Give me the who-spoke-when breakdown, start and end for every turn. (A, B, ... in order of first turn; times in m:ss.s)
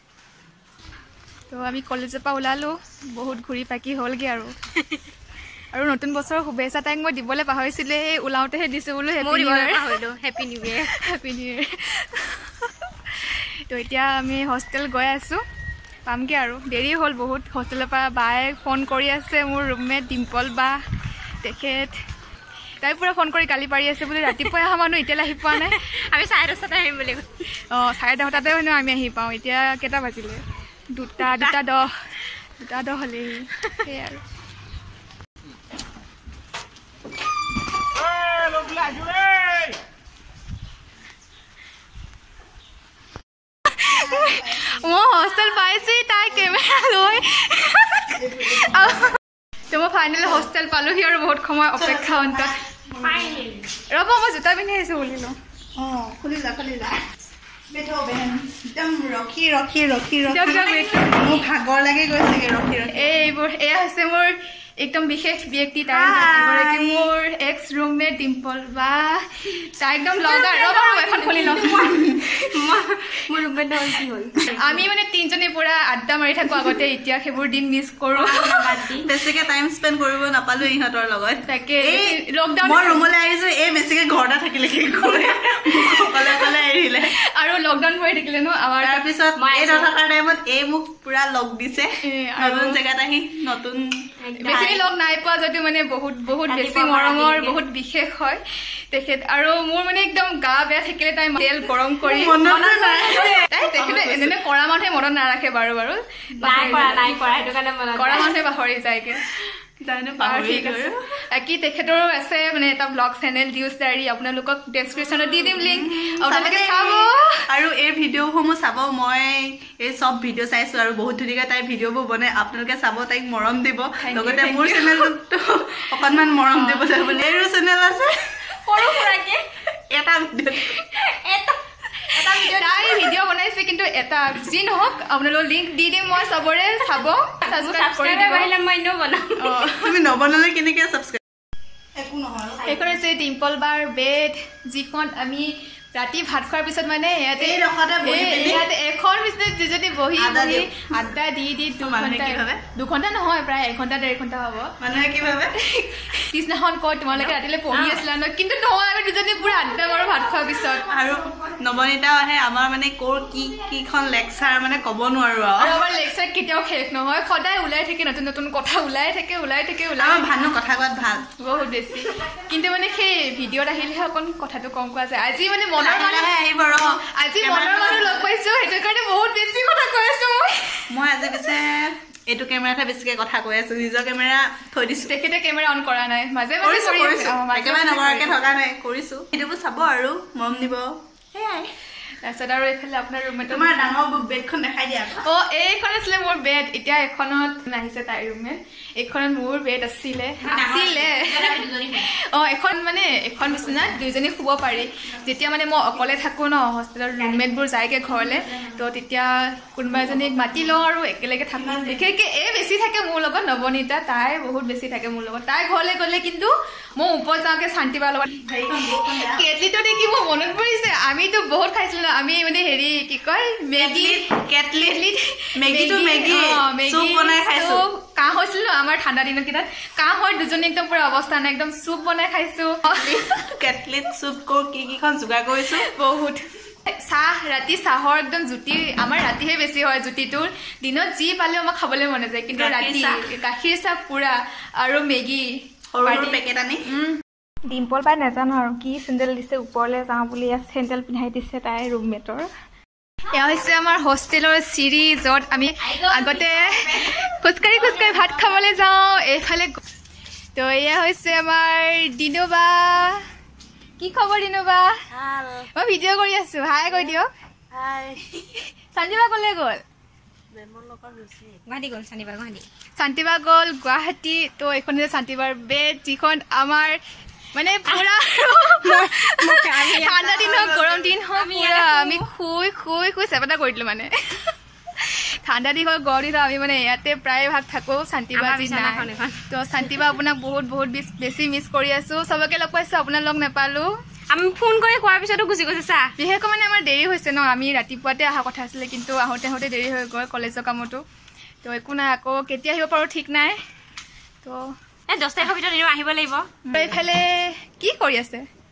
0:01.5-0:04.5 A
0:05.7-0:09.9 A
0:09.2-0:10.9 B
0:10.8-0:15.4 A
0:16.0-0:20.8 A
0:21.4-0:22.0 A
0:22.8-0:25.8 A
0:25.5-0:27.4 B
0:27.7-0:34.2 A
0:31.3-0:31.6 B
0:43.7-0:49.2 A
0:43.9-0:44.7 C
0:48.2-0:48.9 C
0:49.7-0:52.6 A
0:51.8-0:53.5 C
0:53.0-0:53.7 B
0:53.9-0:55.4 A
0:55.8-0:57.0 C
0:57.7-1:03.2 C
1:00.2-1:01.4 A
1:02.9-1:12.5 A
1:05.9-1:07.1 C
1:10.2-1:12.0 B
1:12.5-1:14.8 B
1:14.5-1:18.8 A
1:18.1-1:19.1 B
1:19.0-1:27.1 C
1:21.4-1:23.1 A
1:25.1-1:29.1 A
1:28.8-1:34.0 C
1:29.4-1:29.9 B
1:32.0-1:32.8 A
1:34.2-1:34.8 B
1:34.4-1:42.8 A
1:36.4-1:37.6 B
1:42.0-1:44.4 C
1:43.4-1:47.2 A
1:46.4-1:47.0 C
1:46.4-1:48.3 B
1:47.9-1:49.2 A
1:49.8-1:51.0 C
1:50.2-1:57.5 A
1:55.4-2:08.4 C
2:04.0-2:05.2 A
2:06.2-2:07.5 A
2:08.6-2:09.4 A
2:08.7-2:09.4 B
2:09.9-2:10.8 C
2:10.8-2:11.6 B
2:12.1-2:18.5 A
2:12.1-2:13.2 C
2:12.2-2:12.4 B
2:17.4-2:19.8 B
2:19.4-2:19.9 A
2:19.8-2:21.2 C
2:22.0-2:22.7 C
2:22.5-2:22.9 B
2:22.6-2:34.7 A
2:27.4-2:28.7 C
2:30.2-2:31.2 C
2:31.8-2:32.6 C
2:34.8-2:36.1 C
2:35.7-2:40.9 A
2:37.1-2:38.0 B
2:39.8-2:41.6 B
2:40.8-2:45.8 C
2:45.6-2:50.3 A
2:50.0-2:51.3 C
2:51.4-3:00.9 A
2:55.8-2:58.3 C
3:00.9-3:05.1 C
3:05.0-3:08.5 A
3:06.6-3:11.0 C
3:11.4-3:14.0 A
3:13.5-3:15.3 C
3:15.2-3:53.2 A
3:20.4-3:22.1 B
3:23.7-3:24.0 B
3:27.2-3:28.8 B
3:30.1-3:30.7 B
3:31.5-3:32.0 C
3:38.4-3:39.4 C
3:43.8-3:45.0 C
3:45.6-3:47.8 C
3:52.9-3:55.9 C
3:55.8-4:05.5 A
4:02.5-4:03.2 C
4:05.9-4:06.9 C
4:06.0-4:12.5 A
4:13.3-4:19.8 A
4:15.8-4:18.6 B
4:20.5-4:23.2 A
4:24.0-4:24.9 A
4:25.1-4:25.7 B
4:25.7-4:27.3 A
4:27.7-4:28.3 B
4:28.9-4:29.8 A
4:30.6-4:32.6 B
4:30.7-4:31.6 C
4:33.0-4:37.0 A
4:37.5-4:53.9 A
4:37.9-4:42.3 B
4:40.2-4:41.1 C
4:48.3-4:49.4 B
4:54.3-4:56.1 B
4:56.2-5:01.0 A
5:01.6-5:03.6 A
5:04.4-5:04.7 A
5:05.1-5:06.6 B
5:06.6-5:08.5 A